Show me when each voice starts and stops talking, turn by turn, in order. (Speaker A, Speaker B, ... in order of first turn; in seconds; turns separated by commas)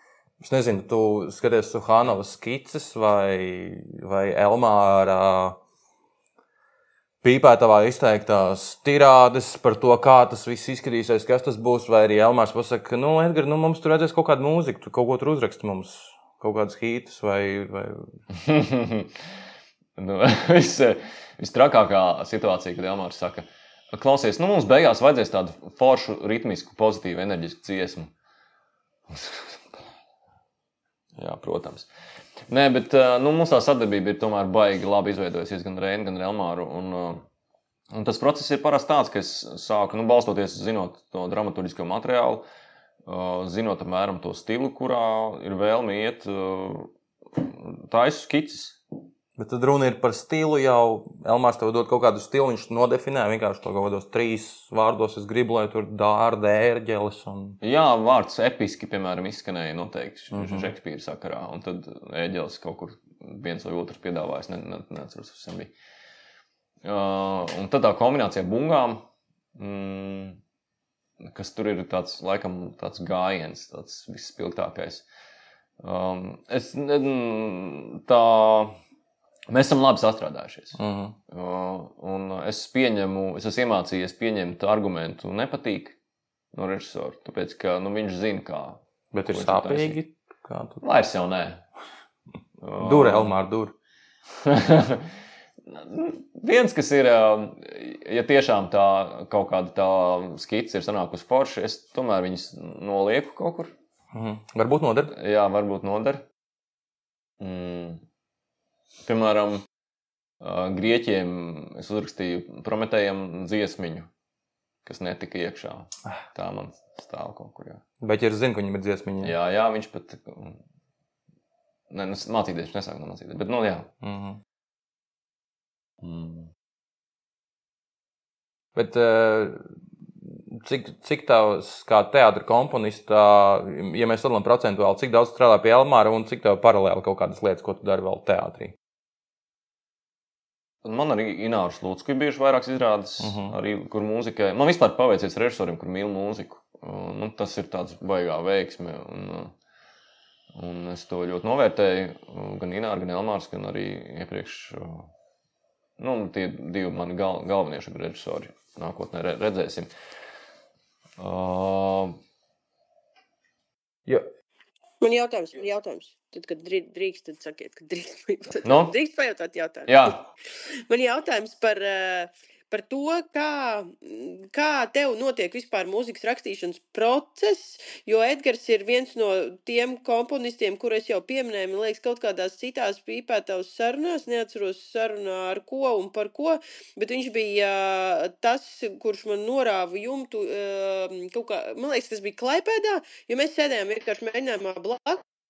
Speaker A: 0.4-5.6, Speaker A: 7.2-18.1, Speaker B: 18.3-19.2, Speaker B: 20.0-28.1, Speaker B: 29.1-29.9, Speaker B: 31.2-31.9, Speaker B: 32.5-37.2, Speaker B: 37.9-42.5, Speaker B: 43.0-48.8, Speaker A: 49.4-57.6, Speaker B: 57.6-65.7, Speaker A: 60.3-60.7, Speaker B: 66.8-69.0, Speaker B: 69.6-70.4, Speaker B: 71.2-75.0, Speaker B: 75.8-78.8, Speaker B: 79.5-80.8, Speaker A: 80.8-81.2, Speaker B: 81.3-86.0, Speaker B: 86.5-90.0, Speaker A: 89.1-90.8, Speaker B: 90.8-91.6, Speaker B: 92.6-93.3, Speaker A: 92.8-93.7, Speaker B: 94.4-95.1, Speaker B: 95.7-103.7, Speaker A: 104.1-105.1, Speaker B: 105.1-106.2, Speaker B: 107.4-108.0, Speaker B: 109.0-109.6, Speaker B: 110.4-114.1, Speaker B: 114.8-117.8, Speaker A: 118.0-119.3, Speaker B: 119.2-120.6, Speaker B: 121.9-123.9, Speaker A: 124.0-124.4, Speaker B: 126.0-126.5, Speaker A: 128.8-129.7, Speaker A: 130.2-138.8, Speaker B: 140.8-149.5, Speaker A: 143.2-143.6, Speaker B: 150.6-155.1, Speaker B: 156.0-159.9, Speaker B: 161.2-162.2, Speaker C: 165.0-170.2, Speaker B: 168.6-168.9, Speaker B: 169.9-170.2, Speaker C: 170.9-195.2